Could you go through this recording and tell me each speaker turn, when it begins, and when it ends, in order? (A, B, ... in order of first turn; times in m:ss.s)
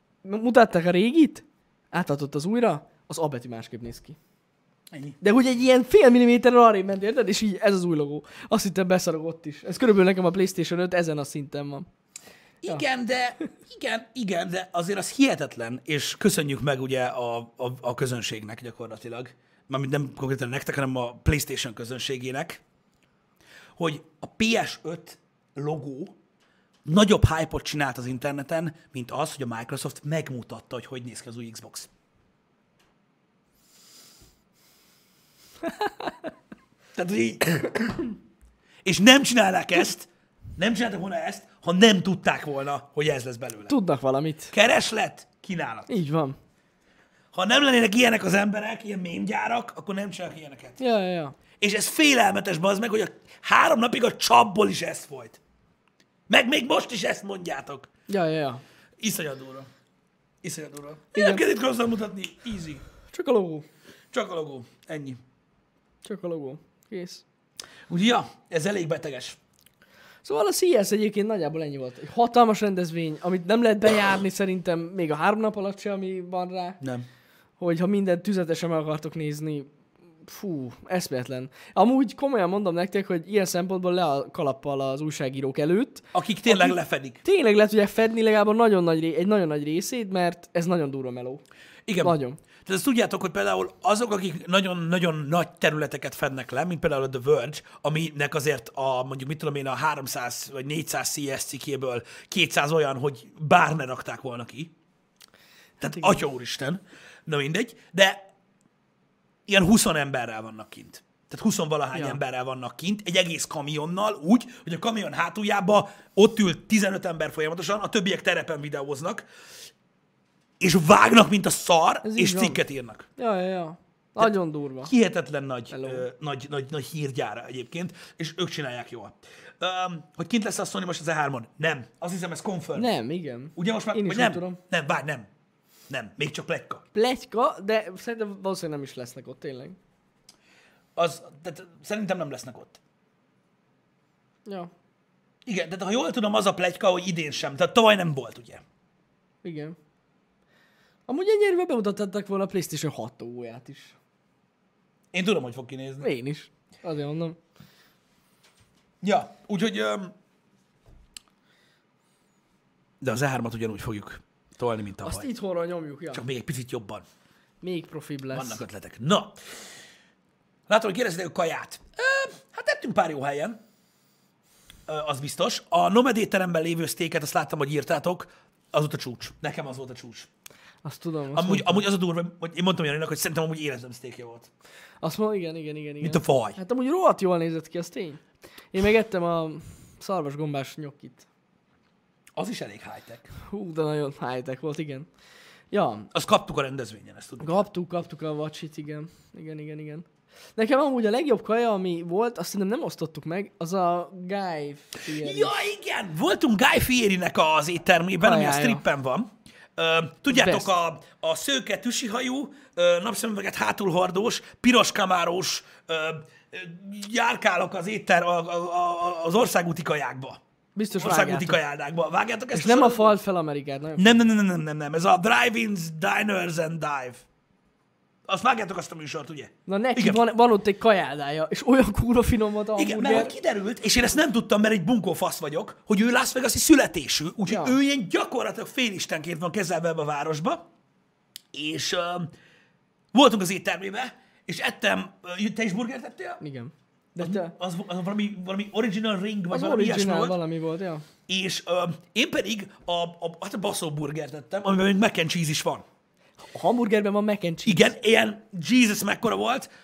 0:00.2-0:04.2 A
0:04.9-0:05.2 B
0:05.2-0:11.9 A
0:12.6-0:22.6 B
0:23.8-0:26.2 B
0:26.8-0:31.9 B
0:35.7-0:36.1 A
0:37.0-0:38.2 B
0:38.8-0:43.8 B
0:43.7-0:44.5 A
0:44.5-0:45.9 B
0:45.9-0:46.4 A
0:47.3-0:50.8 B
0:50.8-0:51.4 A
0:51.6-0:55.4 B
0:56.3-0:57.9 B
0:58.1-0:58.6 A
0:59.0-0:59.7 B
1:00.4-1:02.8 B
1:01.1-1:01.4 A
1:03.1-1:03.6 A
1:04.1-1:05.2 B
1:06.0-1:07.2 A
1:07.9-1:09.4 B
1:10.2-1:16.8 A
1:16.8-1:17.1 B
1:17.6-1:19.7 A
1:20.2-1:31.4 A
1:26.1-1:27.2 B
1:31.9-1:44.7 B
1:32.0-1:32.4 A
1:45.8-1:48.2 B
1:49.5-1:59.3 B
1:51.9-1:52.2 A
2:00.6-2:03.1 B
2:02.0-2:02.6 A
2:03.2-2:04.9 A
2:04.8-2:12.9 B
2:05.7-2:06.0 A
2:12.8-2:14.6 A
2:13.6-2:15.3 B
2:15.9-2:16.8 B
2:16.9-2:19.8 A
2:21.0-2:22.8 B
2:24.5-2:24.7 A
2:25.4-2:28.6 B
2:29.4-2:29.8 A
2:31.1-2:34.0 A
2:35.1-2:36.1 B
2:36.0-2:37.4 A
2:39.0-2:40.1 B
2:43.0-2:45.3 B
2:45.0-2:46.2 A
2:46.1-2:47.0 B
2:47.6-2:48.6 A
2:48.3-2:49.4 B
2:50.7-2:53.6 B
2:54.9-3:00.3 B
3:00.8-3:01.8 A
3:01.3-3:04.5 B
3:05.0-3:08.2 A
3:06.0-3:06.6 B
3:08.7-3:11.3 A
3:12.4-3:13.3 B
3:13.5-3:15.1 A
3:15.7-3:16.1 A
3:16.1-3:17.7 B
3:17.4-3:25.6 A
3:25.1-3:40.4 B
3:28.2-3:28.8 A
3:30.3-3:30.7 A
3:40.8-3:41.6 A
3:41.0-3:43.2 B
3:42.5-3:44.2 A
3:44.0-3:47.2 B
3:48.3-3:50.2 B
3:49.7-3:53.4 A
3:52.8-4:00.7 B
3:57.5-3:57.8 A
4:01.5-4:02.3 B
4:03.1-4:06.4 B
4:06.4-4:07.5 A
4:07.2-4:10.4 B
4:09.5-4:11.1 A
4:11.3-4:15.8 B
4:16.4-4:17.9 A
4:17.7-4:19.7 B